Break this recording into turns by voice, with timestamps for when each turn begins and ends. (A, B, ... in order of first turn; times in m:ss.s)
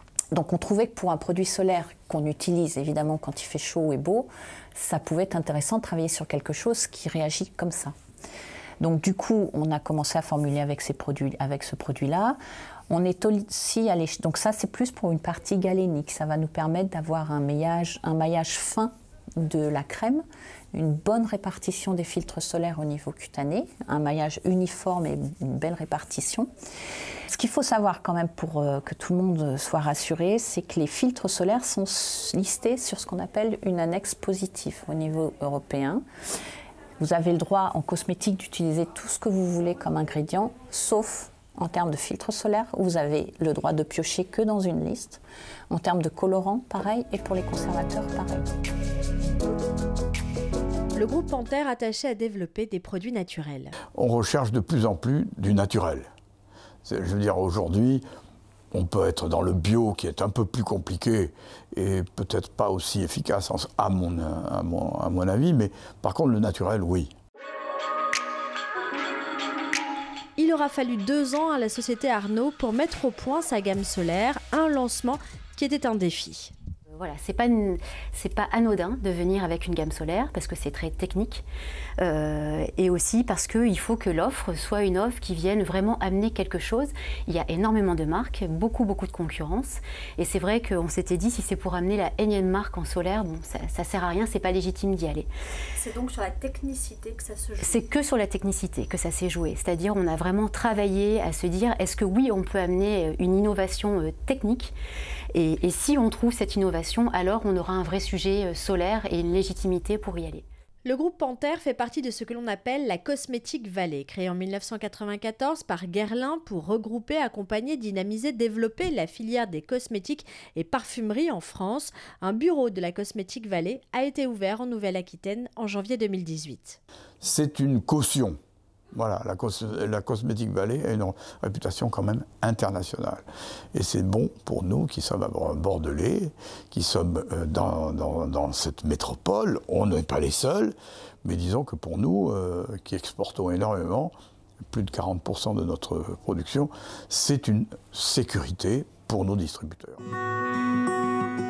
0:00.3-0:07.9 A
0:08.8-0:12.4 A
0:12.9-0:26.5 A
0:27.3-0:36.0 A
0:37.0-0:48.5 A
0:50.9-0:53.7 B
0:54.0-0:56.1 C
0:56.8-0:58.0 C
0:58.7-1:07.1 C
1:10.4-1:16.5 B
1:16.9-1:21.4 D
1:22.0-1:35.3 D
1:35.7-1:37.8 B
1:37.6-1:44.7 D
1:45.3-1:50.4 D
1:50.8-2:06.8 B
2:07.2-2:08.4 C
2:08.9-2:24.1 C
2:24.7-2:30.0 C